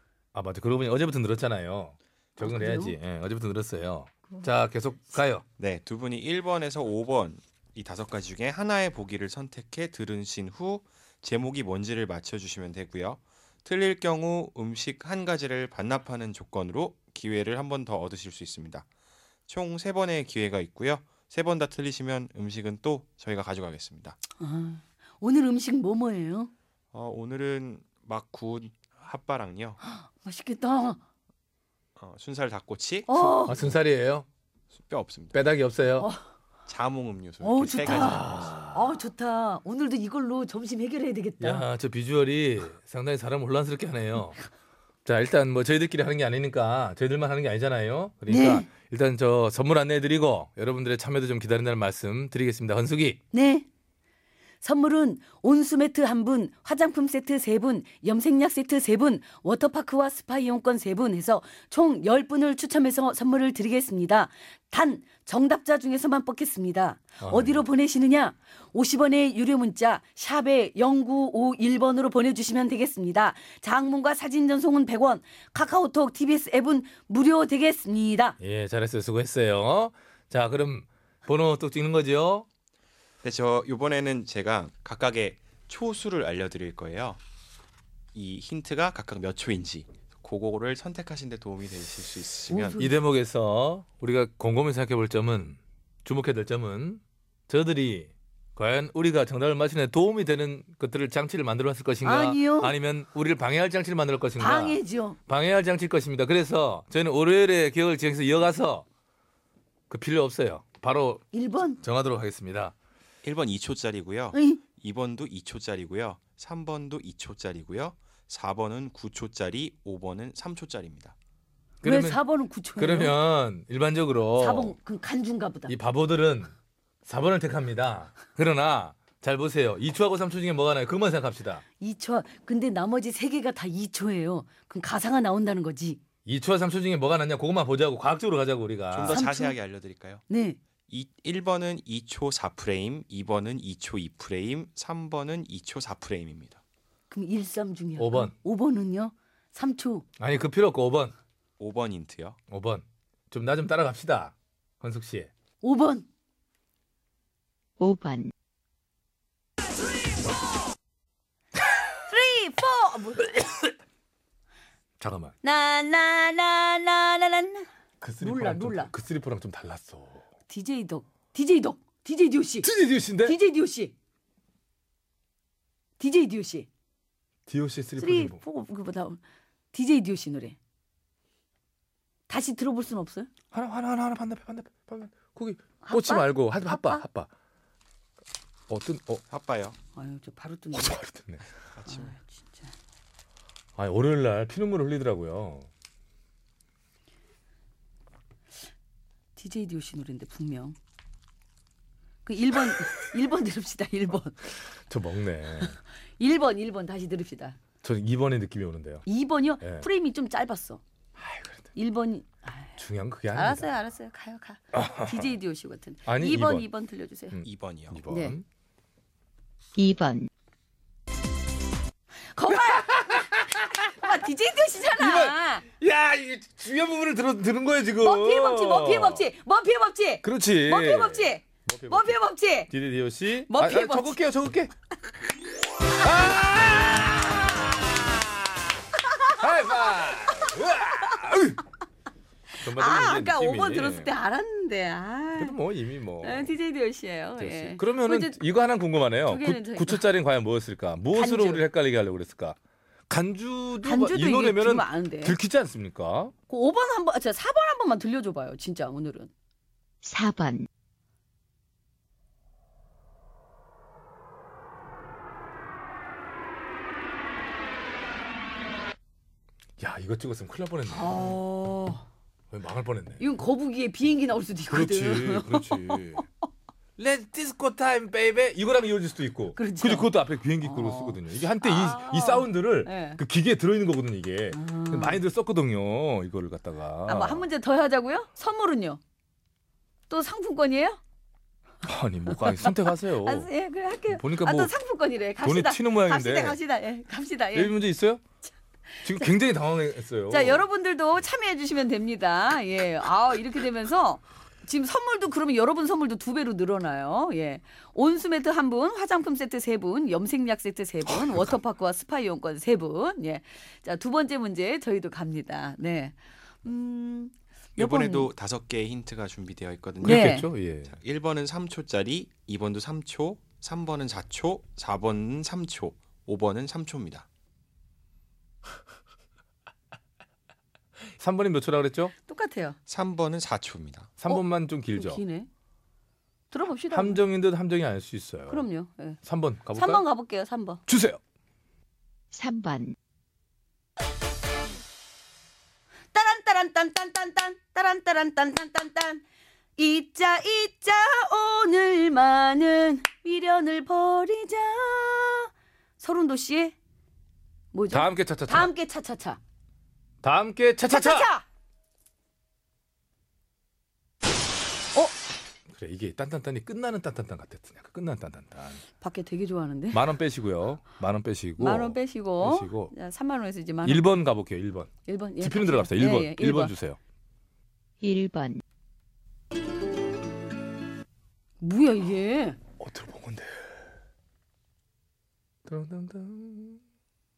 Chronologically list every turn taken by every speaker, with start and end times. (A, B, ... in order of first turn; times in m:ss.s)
0:00.3-0:05.4 A
0:02.4-0:03.0 B
0:05.6-0:18.9 C
0:19.5-0:24.2 C
0:24.4-0:26.5 B
0:26.9-0:29.8 C
0:29.8-0:31.0 B
0:32.0-0:33.7 C
0:33.1-0:33.6 B
0:33.4-0:34.3 A
0:34.7-0:35.4 C
0:35.3-0:36.1 A
0:36.7-0:38.6 C
0:37.4-0:41.6 B
0:37.8-0:38.8 A
0:41.4-0:44.4 A
0:45.0-0:53.2 A
0:48.3-0:48.7 B
0:53.3-0:53.6 B
0:54.6-1:18.4 B
1:07.2-1:07.6 A
1:18.4-1:22.5 A
1:23.2-1:27.2 C
1:28.1-1:32.8 C
1:32.5-1:32.9 B
1:32.8-1:48.8 A
1:42.0-1:42.7 B
1:44.4-1:45.2 B
1:49.9-1:51.2 A
1:51.3-1:51.8 B
1:51.8-1:52.7 A
1:53.2-2:01.1 C
1:54.3-1:54.6 B
2:01.8-2:02.2 A
2:01.8-2:03.2 B
2:02.8-2:04.7 A
2:04.4-2:05.7 B
2:05.7-2:06.5 A
2:07.0-2:11.6 A
2:11.8-2:16.0 B
2:16.2-2:19.2 A
2:18.9-2:20.2 C
2:19.1-2:19.6 B
2:20.3-2:20.6 B
2:20.9-2:26.6 C
2:27.1-2:30.0 B
2:28.0-2:28.3 A
2:30.2-2:31.1 A
2:31.6-2:32.4 C
2:32.5-2:35.3 A
2:35.6-2:36.1 B
2:37.8-2:38.3 D
2:42.1-2:43.4 B
2:45.0-2:45.4 A
2:45.4-2:47.7 B
2:48.0-2:50.2 A
2:48.2-2:48.9 B
2:50.5-2:52.7 B
2:52.6-2:53.4 A
2:53.2-2:53.9 B
2:56.0-2:56.7 B
2:57.5-2:58.4 A
2:58.0-2:59.2 B
2:59.7-3:00.6 B
3:02.3-3:03.3 B
3:03.5-3:07.3 A
3:05.8-3:07.0 B
3:08.7-3:09.2 A
3:09.3-3:09.8 C
3:09.9-3:11.0 B
3:10.7-3:11.4 A
3:11.8-3:12.1 C
3:11.8-3:12.7 B
3:13.8-3:15.7 A
3:19.4-3:20.8 B
3:22.2-3:24.4 B
3:24.9-3:25.8 A
3:26.2-3:27.6 B
3:27.8-3:29.0 A
3:29.0-3:30.8 B
3:29.6-3:29.8 A
3:31.2-3:31.7 A
3:31.7-3:32.7 B
3:32.8-3:33.7 A
3:33.3-3:37.4 B
3:34.7-3:35.3 A
3:36.0-3:36.7 A
3:37.3-3:38.4 A
3:37.4-3:38.0 C
3:38.1-3:38.3 B
3:39.7-3:40.3 D
3:42.3-3:43.2 B
3:42.5-3:43.9 A
3:43.9-3:45.6 B
3:45.0-3:49.3 A
3:48.0-3:52.7 B
3:50.2-3:52.2 A
3:52.7-3:54.7 A
3:53.5-3:54.2 B
3:56.0-3:58.7 A
3:59.3-4:01.6 A
4:02.6-4:04.1 A
4:02.6-4:05.6 B
4:05.4-4:06.5 A
4:06.2-4:08.4 B
4:07.4-4:12.6 A
4:09.2-4:10.0 B
4:11.1-4:11.6 B
4:13.1-4:16.3 A
4:13.8-4:15.4 B
4:16.5-4:19.3 B
4:20.0-4:20.7 D
4:29.8-4:31.4 A
4:30.9-4:32.0 B
4:32.5-4:33.2 A
4:33.2-4:36.2 B
4:34.7-4:36.2 A
4:37.0-4:47.5 A
4:39.6-4:43.2 B
4:44.5-4:45.2 B
4:47.1-4:49.0 B
4:50.1-4:51.0 B
4:51.8-4:53.5 A
4:52.3-4:57.8 B
4:54.1-4:54.7 A
4:55.4-4:56.6 A
4:57.5-4:58.2 A
4:58.9-4:59.3 B
4:59.0-5:00.6 A
5:00.3-5:18.3 B
5:11.1-5:11.5 A
5:17.8-5:27.3 C
5:20.0-5:20.5 B
5:20.0-5:20.9 A
5:31.2-5:32.1 A
5:32.3-5:32.8 B
5:32.9-5:34.1 C
5:34.2-5:35.2 A
5:34.3-5:35.5 B
5:36.5-5:37.2 B
5:36.9-5:38.7 A
5:38.5-5:39.2 B
5:39.2-5:40.0 A
5:39.7-5:40.8 B
5:40.9-5:41.2 A
5:42.3-5:43.0 D
5:46.1-5:49.2 B
5:49.8-5:55.5 B
5:56.0-5:56.7 B
5:57.7-5:59.4 B
5:57.9-5:58.7 A
6:00.2-6:01.3 A
6:00.9-6:01.4 B
6:05.7-6:08.8 A
6:09.0-6:10.1 B
6:09.9-6:12.9 A
6:11.6-6:14.1 B
6:13.8-6:17.0 A
6:15.0-6:16.7 B
6:18.0-6:18.6 D
6:21.6-6:22.6 B
6:22.8-6:23.8 A
6:25.6-6:26.8 A